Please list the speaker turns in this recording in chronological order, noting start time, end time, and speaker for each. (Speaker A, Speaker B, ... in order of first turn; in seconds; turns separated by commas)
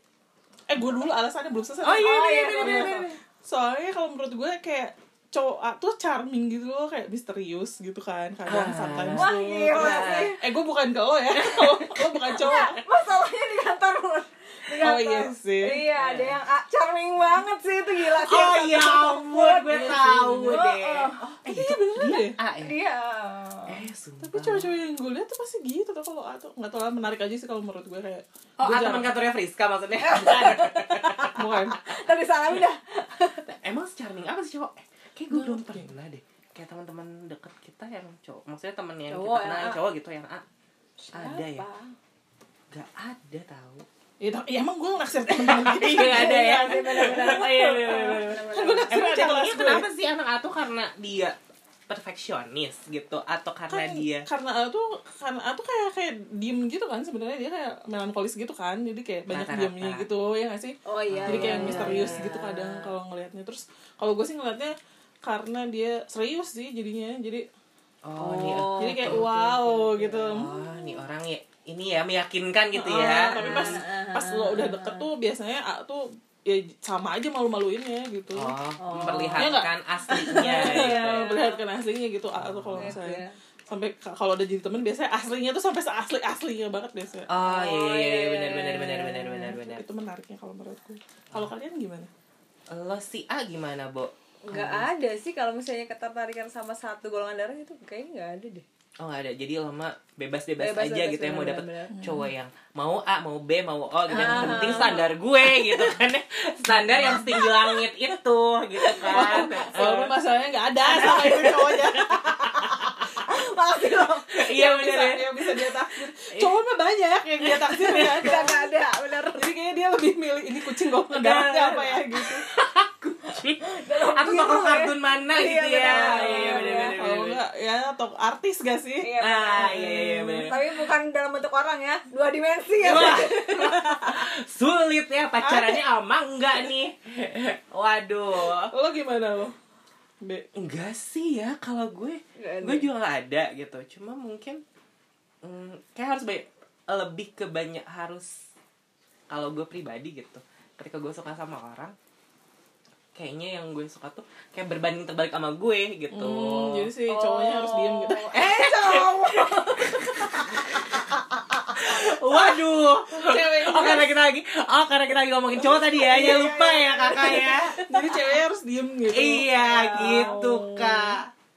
Speaker A: 0.7-12.8, Speaker B: 1.8-3.1, Speaker C: 1.9-3.2, Speaker B: 8.5-10.3, Speaker C: 9.1-10.4, Speaker B: 11.6-11.8, Speaker C: 12.3-21.3, Speaker A: 14.8-15.8, Speaker B: 16.0-16.4, Speaker B: 18.0-22.7, Speaker A: 19.7-20.6, Speaker A: 21.5-22.4, Speaker C: 22.6-23.8, Speaker B: 23.7-24.7, Speaker A: 24.2-29.1, Speaker B: 28.6-31.4, Speaker C: 30.0-33.4, Speaker A: 31.4-31.8, Speaker B: 33.4-40.5, Speaker A: 35.3-35.9, Speaker C: 39.1-39.8, Speaker C: 41.0-41.9, Speaker B: 41.1-41.7, Speaker B: 42.7-43.9, Speaker A: 44.2-47.5, Speaker B: 45.3-51.4, Speaker C: 45.9-49.0, Speaker A: 48.5-49.9, Speaker B: 51.9-54.3, Speaker A: 53.7-67.5, Speaker B: 59.3-60.1, Speaker C: 60.9-62.9, Speaker B: 61.1-62.4, Speaker B: 68.0-73.8, Speaker C: 68.2-71.0, Speaker A: 68.8-70.5, Speaker A: 72.8-78.6, Speaker C: 72.8-75.1, Speaker B: 78.3-81.3, Speaker C: 78.8-79.6, Speaker A: 79.4-87.3, Speaker C: 80.1-81.6, Speaker B: 82.4-83.0, Speaker C: 82.8-83.4, Speaker B: 87.3-89.8, Speaker C: 87.4-89.6, Speaker A: 89.6-92.1, Speaker B: 92.7-94.9, Speaker C: 94.5-98.7, Speaker B: 99.0-110.1, Speaker C: 100.6-102.0, Speaker A: 101.9-102.3, Speaker C: 104.1-105.9, Speaker A: 104.3-104.7, Speaker C: 106.9-107.8, Speaker C: 108.8-109.9, Speaker A: 109.0-112.2, Speaker B: 110.8-113.0, Speaker C: 111.0-111.4, Speaker C: 112.1-114.5, Speaker B: 114.4-115.5, Speaker A: 114.5-118.6, Speaker B: 117.7-118.4, Speaker C: 117.8-119.5, Speaker A: 119.4-122.5, Speaker B: 121.1-127.4, Speaker C: 123.6-127.0, Speaker A: 126.2-130.5, Speaker C: 129.0-134.3, Speaker B: 129.2-130.6, Speaker B: 132.8-138.7, Speaker A: 135.4-135.8, Speaker A: 138.5-139.5, Speaker B: 140.6-144.6, Speaker C: 142.4-142.9, Speaker B: 145.4-148.4, Speaker B: 149.3-151.9, Speaker B: 153.2-156.9, Speaker A: 156.1-158.4, Speaker C: 157.1-162.1, Speaker B: 158.3-161.1, Speaker B: 161.7-167.8, Speaker A: 163.1-164.2, Speaker C: 165.8-168.1, Speaker A: 167.8-169.5, Speaker B: 169.1-171.3, Speaker C: 169.6-171.0, Speaker A: 170.0-170.5